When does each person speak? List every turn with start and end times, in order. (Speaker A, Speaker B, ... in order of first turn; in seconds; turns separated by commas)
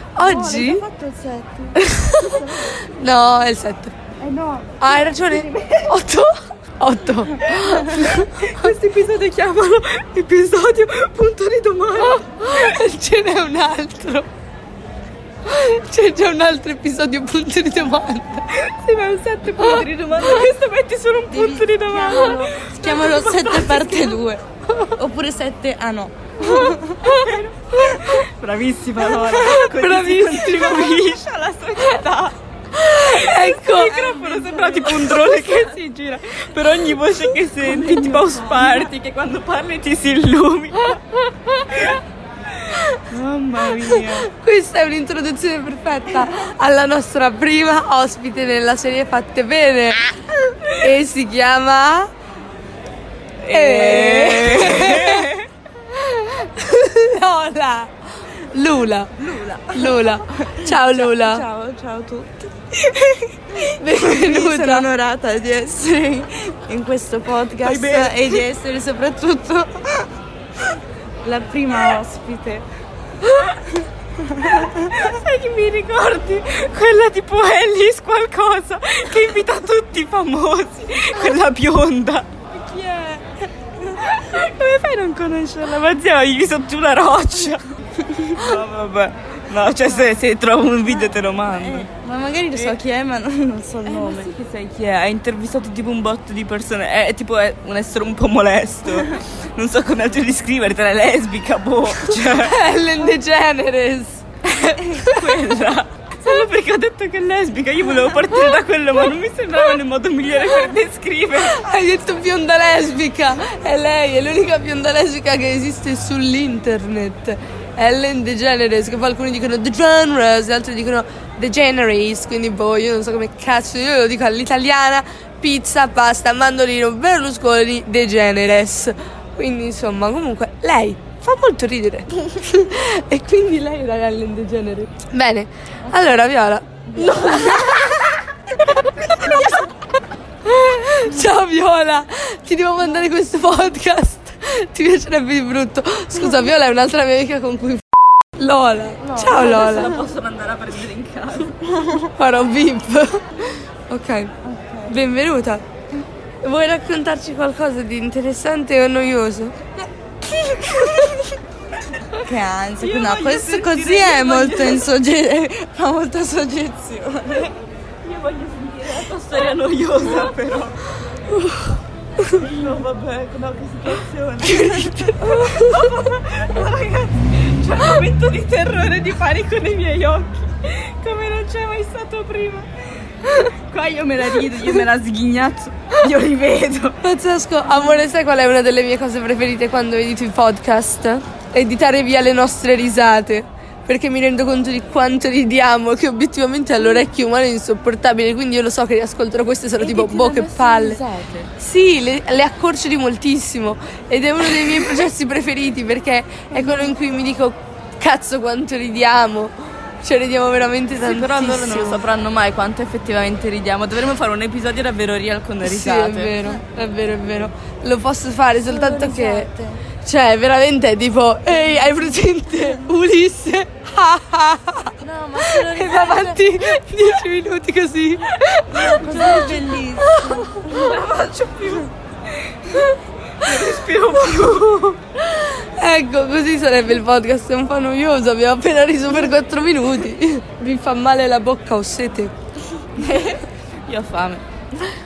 Speaker A: 0.2-0.8, Speaker B: 0.2-0.8, Speaker C: 0.3-1.7, Speaker A: 1.8-4.0, Speaker B: 4.2-4.8, Speaker A: 4.8-8.7, Speaker B: 5.3-5.9, Speaker B: 7.5-12.3, Speaker A: 12.1-14.3, Speaker A: 15.5-18.4, Speaker B: 18.5-24.3, Speaker C: 21.3-24.4, Speaker C: 25.0-27.1, Speaker B: 26.4-32.4, Speaker A: 29.1-31.1, Speaker A: 32.7-34.1, Speaker B: 32.9-41.0, Speaker C: 33.9-35.2, Speaker A: 34.7-35.3, Speaker C: 38.2-38.7, Speaker B: 41.7-42.0, Speaker B: 42.7-44.3, Speaker A: 43.8-52.1, Speaker B: 53.4-55.5, Speaker A: 53.5-55.3, Speaker A: 55.9-59.1, Speaker C: 59.2-62.5, Speaker A: 59.7-61.5, Speaker A: 62.8-64.9, Speaker C: 63.6-70.1, Speaker B: 67.6-68.5, Speaker C: 71.2-72.7, Speaker C: 74.2-74.9, Speaker B: 74.5-83.2, Speaker B: 83.8-91.9, Speaker C: 91.5-94.3, Speaker B: 92.5-92.8, Speaker B: 93.8-102.5, Speaker A: 102.3-104.2, Speaker B: 104.4-111.7, Speaker A: 105.0-105.3, Speaker A: 111.4-139.8, Speaker A: 140.4-150.0, Speaker B: 149.1-151.8, Speaker A: 152.1-154.3, Speaker B: 154.4-154.9, Speaker A: 154.9-155.7, Speaker A: 156.4-159.6, Speaker A: 160.4-161.3, Speaker C: 162.2-167.5, Speaker B: 162.8-164.9, Speaker B: 168.0-170.9, Speaker A: 171.3-171.8, Speaker B: 172.4-187.0, Speaker A: 174.4-175.9, Speaker A: 187.0-201.0, Speaker B: 199.8-201.5, Speaker A: 201.6-212.0, Speaker B: 211.0-216.5, Speaker A: 215.6-219.5, Speaker C: 218.7-219.8, Speaker A: 220.0-230.6, Speaker C: 225.0-226.4, Speaker C: 228.7-230.9, Speaker B: 229.2-229.6, Speaker B: 230.7-235.0, Speaker A: 235.2-242.3, Speaker B: 243.0-244.9